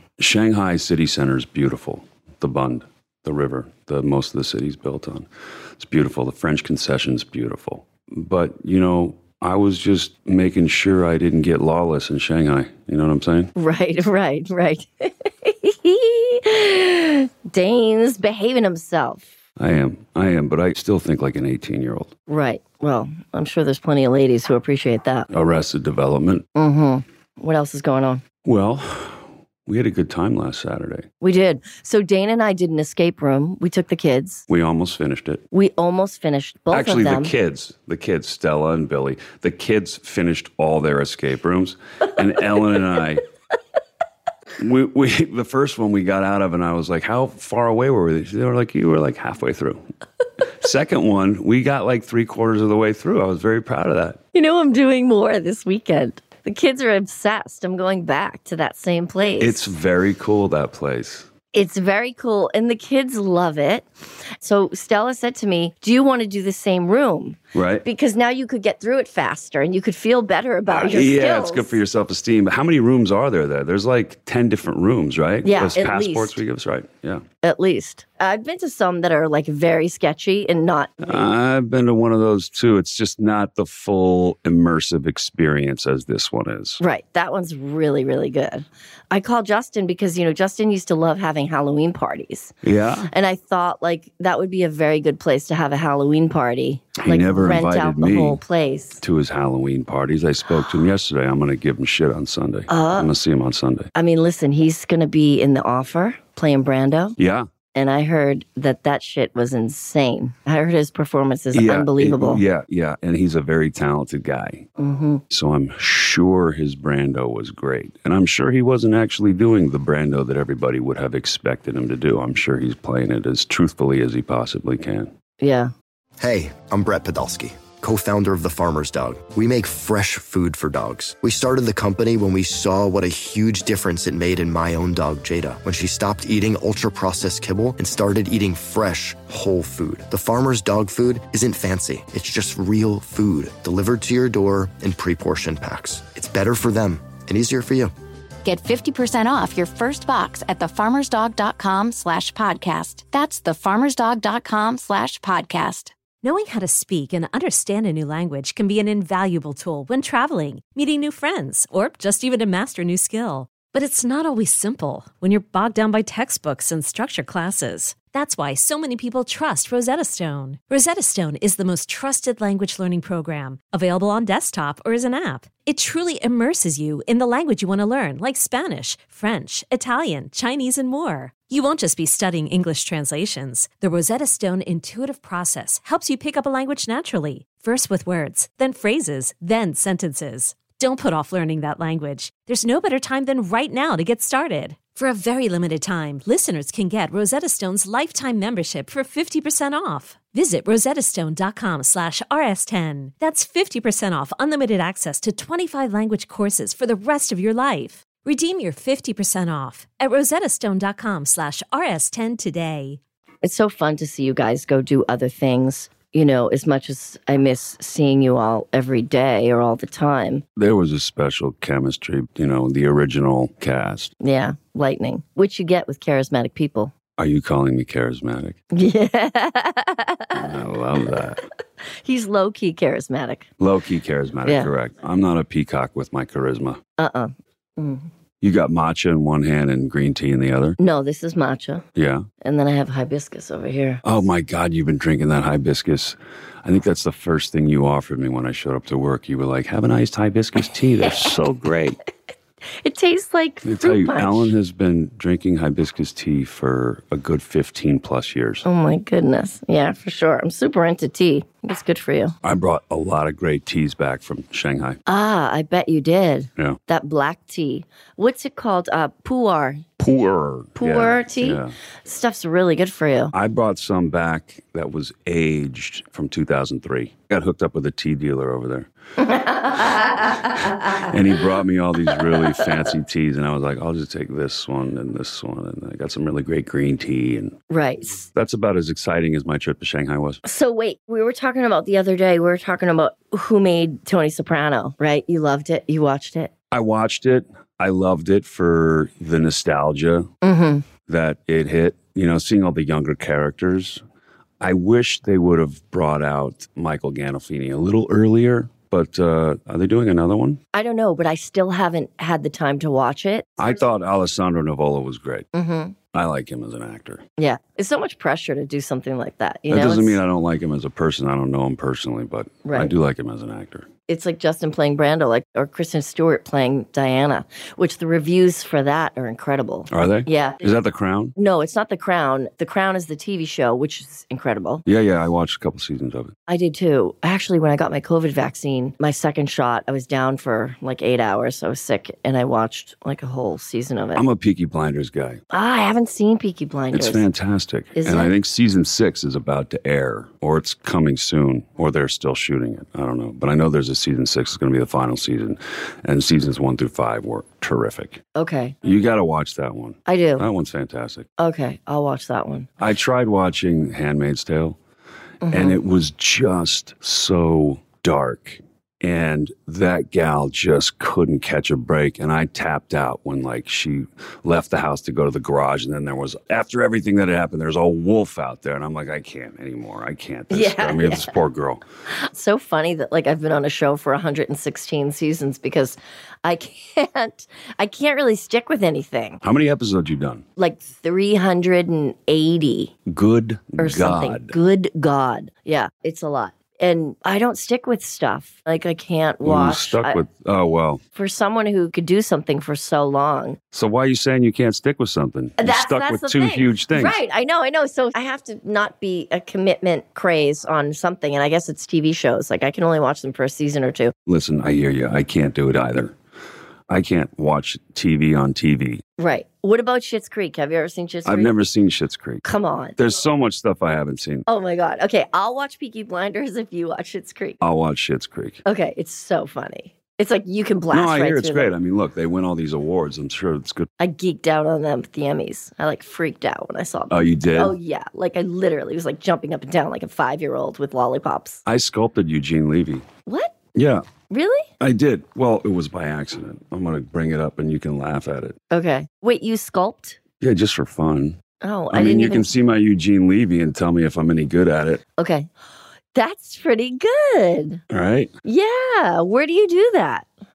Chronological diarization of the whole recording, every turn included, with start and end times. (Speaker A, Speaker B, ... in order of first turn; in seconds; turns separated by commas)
Speaker A: 0.2-13.5, Speaker B: 13.5-19.3, Speaker A: 19.6-22.1, Speaker B: 22.3-25.3, Speaker A: 25.3-26.4, Speaker B: 26.5-28.2, Speaker A: 28.4-31.1, Speaker B: 31.2-34.5, Speaker A: 34.5-35.4, Speaker B: 35.5-37.3, Speaker A: 36.7-43.2, Speaker A: 44.6-49.8, Speaker A: 50.4-54.2, Speaker B: 54.3-59.7, Speaker A: 59.4-61.3, Speaker B: 61.5-63.9, Speaker B: 64.4-71.8, Speaker A: 67.5-67.8, Speaker A: 70.7-77.2, Speaker B: 75.4-76.4, Speaker B: 77.4-81.2, Speaker A: 81.0-86.8, Speaker B: 86.8-92.5, Speaker A: 92.6-93.1, Speaker B: 93.1-99.0, Speaker A: 97.0-98.4, Speaker A: 99.0-103.9, Speaker B: 102.7-103.1, Speaker B: 103.9-107.2, Speaker A: 107.2-107.5, Speaker B: 107.7-112.4, Speaker A: 111.5-114.7, Speaker B: 114.8-115.2, Speaker A: 115.3-125.1, Speaker B: 125.4-125.7, Speaker C: 126.2-147.9, Speaker D: 148.4-155.9, Speaker E: 156.2-213.0, Speaker B: 213.4-220.4, Speaker A: 220.6-224.1, Speaker B: 224.2-226.9, Speaker A: 227.2-228.6, Speaker B: 228.7-230.4, Speaker A: 230.3-231.4, Speaker B: 232.0-233.5, Speaker A: 233.6-236.8, Speaker B: 237.0-238.1, Speaker A: 238.4-240.8, Speaker B: 240.8-241.8, Speaker A: 241.9-242.3, Speaker B: 242.4-244.0, Speaker A: 244.0-252.0, Speaker B: 251.0-251.3, Speaker B: 252.8-254.5, Speaker A: 253.6-258.6, Speaker B: 258.6-262.3, Speaker A: 262.4-265.0, Speaker B: 265.1-269.9, Speaker A: 270.0-271.7, Speaker B: 270.8-273.3, Speaker A: 273.3-278.9, Speaker B: 279.2-281.1, Speaker A: 279.7-287.6, Speaker B: 282.0-282.7, Speaker B: 287.7-288.3, Speaker A: 288.3-290.4, Speaker B: 290.4-296.5, Speaker A: 296.7-300.3, Speaker B: 300.4-300.9, Speaker A: 301.1-304.0, Speaker A: 304.6-310.6, Speaker B: 310.7-313.6, Speaker A: 313.6-315.5, Speaker B: 315.5-315.9, Speaker A: 316.1-317.2, Speaker B: 317.4-320.2, Speaker A: 319.7-323.9, Speaker B: 322.6-322.9, Speaker B: 324.1-330.6, Speaker A: 329.9-331.3, Speaker B: 331.4-334.8, Speaker A: 334.8-336.3, Speaker B: 336.5-344.2, Speaker A: 344.1-345.4, Speaker B: 345.5-347.2, Speaker A: 346.9-358.2, Speaker B: 347.9-348.3, Speaker B: 358.4-358.8, Speaker A: 358.8-361.3, Speaker B: 360.1-360.4, Speaker B: 361.4-362.7, Speaker A: 362.8-364.8, Speaker B: 365.4-365.8, Speaker A: 365.5-381.8, Speaker B: 380.5-381.4, Speaker B: 382.1-389.4, Speaker A: 389.4-390.4, Speaker B: 390.6-392.9, Speaker A: 393.1-394.5, Speaker B: 393.8-400.2, Speaker A: 399.4-401.0, Speaker B: 401.1-403.6, Speaker A: 403.7-407.2, Speaker B: 405.6-414.1, Speaker A: 414.2-416.1, Speaker A: 416.9-419.0, Speaker B: 419.2-421.5, Speaker A: 421.2-422.4, Speaker B: 422.4-423.0, Speaker A: 423.0-424.4, Speaker B: 424.5-427.6, Speaker A: 427.6-428.6, Speaker B: 428.6-431.7, Speaker A: 430.9-433.9, Speaker B: 434.0-441.6, Speaker A: 437.1-437.8, Speaker A: 441.6-443.1, Speaker B: 443.2-443.5, Speaker A: 443.7-444.0, Speaker B: 444.3-444.7, Speaker A: 444.8-448.6, Speaker B: 448.7-450.2, Speaker A: 450.4-451.4, Speaker B: 451.6-452.5, Speaker A: 451.9-455.0, Speaker B: 455.2-455.5, Speaker B: 456.1-457.8, Speaker A: 457.9-458.3, Speaker B: 458.4-460.3